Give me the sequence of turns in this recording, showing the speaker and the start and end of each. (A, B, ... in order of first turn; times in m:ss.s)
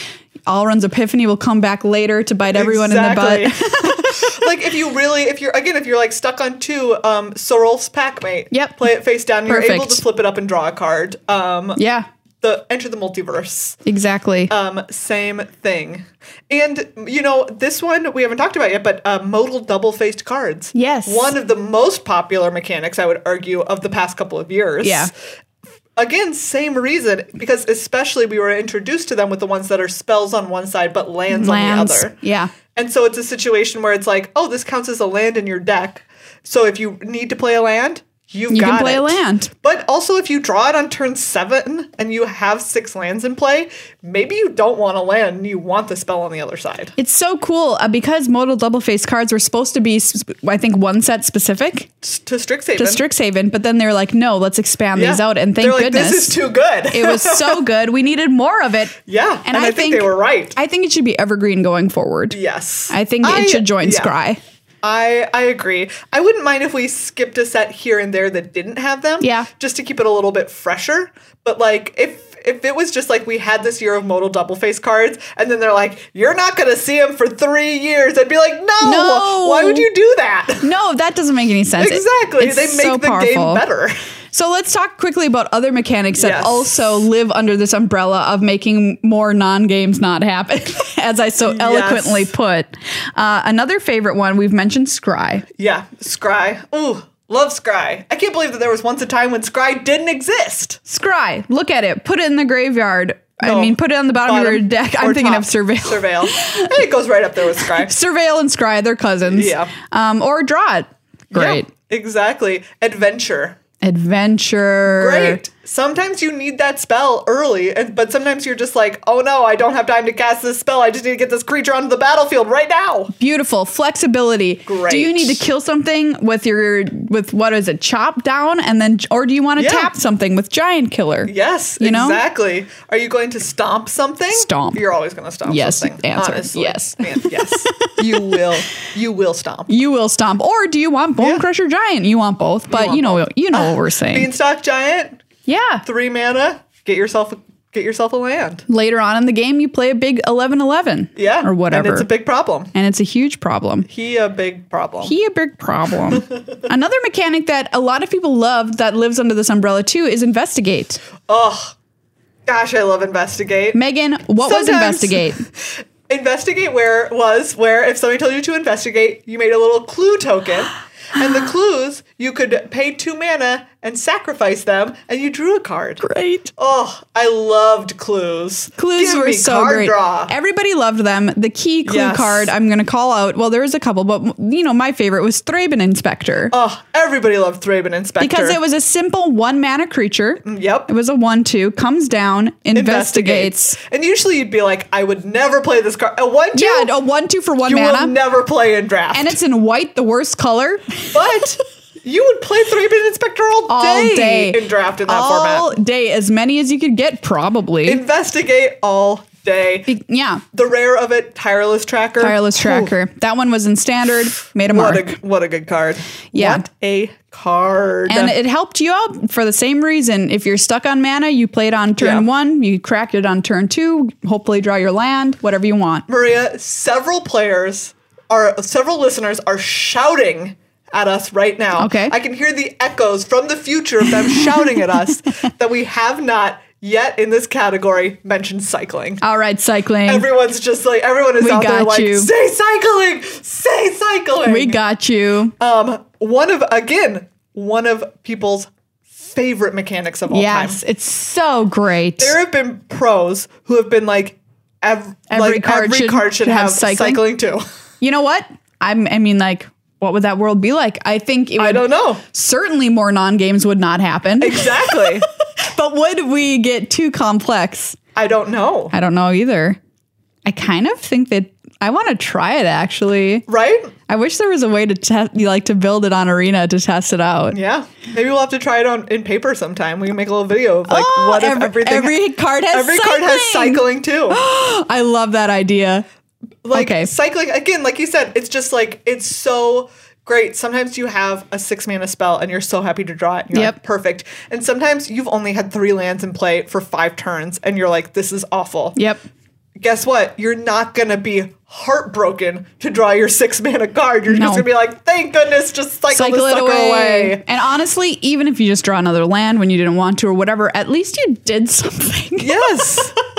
0:00.4-0:04.4 A
0:02.5-0:11.8 B
0:08.5-0:08.9 A
0:09.4-0:10.0 A
0:11.8-0:12.1 A
0:12.4-0:13.8 B
0:13.8-0:14.5 A
0:14.5-0:25.1 B
0:20.7-0:21.3 A
0:24.8-0:25.1 A
0:26.0-0:32.2 B
0:31.3-0:32.5 A
0:32.7-0:46.9 B
0:38.5-0:39.5 A
0:47.0-0:51.9 A
0:52.0-0:53.0 B
0:52.8-0:56.4 A
0:55.0-0:57.6 B
0:56.9-1:02.4 A
0:59.0-1:00.5 B
1:02.3-1:04.1 B
1:02.9-1:04.4 A
1:04.8-1:20.7 B
1:09.2-1:09.5 A
1:18.8-1:19.8 A
1:20.6-1:23.6 A
1:21.8-1:23.9 B
1:24.3-1:35.4 A
1:26.2-1:27.0 B
1:31.4-1:32.3 B
1:35.6-1:40.8 B
1:40.9-1:46.8 A
1:43.4-1:47.9 B
1:47.6-1:51.7 A
1:49.3-1:49.7 B
1:51.3-1:53.6 B
1:53.8-1:55.4 A
1:54.8-2:03.1 B
2:03.2-2:12.2 A
2:04.7-2:05.4 B
2:09.6-2:09.9 B
2:11.2-2:19.7 B
2:14.3-2:14.8 A
2:15.5-2:18.3 A
2:19.7-2:24.3 A
2:21.2-2:21.4 B
2:22.7-2:25.2 B
2:25.4-2:25.8 A
2:25.8-2:28.6 B
2:28.7-2:32.1 A
2:31.2-2:32.7 B
2:32.7-2:33.9 A
2:33.9-2:35.1 B
2:35.0-2:41.0 A
2:41.3-2:41.7 B
2:42.4-2:43.8 B
2:43.7-2:45.4 A
2:44.4-2:56.0 B
2:56.0-2:56.5 A
2:56.6-3:00.3 B
2:58.8-3:06.5 A
3:01.8-3:02.5 B
3:06.5-3:08.6 B
3:08.2-3:13.8 A
3:10.4-3:10.9 B
3:12.7-3:16.9 B
3:16.5-3:18.1 A
3:17.6-3:19.4 B
3:19.1-3:21.2 A
3:21.1-3:25.8 B
3:23.7-3:28.0 A
3:27.8-3:29.9 B
3:29.9-3:30.4 A
3:30.5-3:32.9 B
3:32.2-3:35.2 A
3:34.7-3:38.4 B
3:36.3-3:36.6 A
3:38.1-3:46.0 A
3:42.0-3:42.2 B
3:46.1-3:59.2 B
3:51.8-3:52.1 A
3:59.2-4:00.2 A
4:00.1-4:04.8 B
4:01.4-4:02.3 A
4:04.4-4:05.5 A
4:05.6-4:10.8 B
4:10.3-4:12.4 A
4:12.2-4:17.6 B
4:15.3-4:17.2 A
4:18.0-4:28.0 A
4:21.6-4:22.2 B
4:24.4-4:25.2 B
4:28.2-4:28.9 B
4:28.9-4:29.8 A
4:30.4-4:33.4 A
4:33.5-4:33.9 B
4:34.1-4:37.6 A
4:37.5-4:42.2 B
4:40.9-4:46.0 A
4:42.7-4:44.4 B
4:46.6-4:59.0 B
4:46.7-4:47.1 A
4:59.0-4:59.2 A
4:59.8-5:07.4 B
5:04.3-5:04.7 A
5:06.1-5:13.1 A
5:12.4-5:13.2 B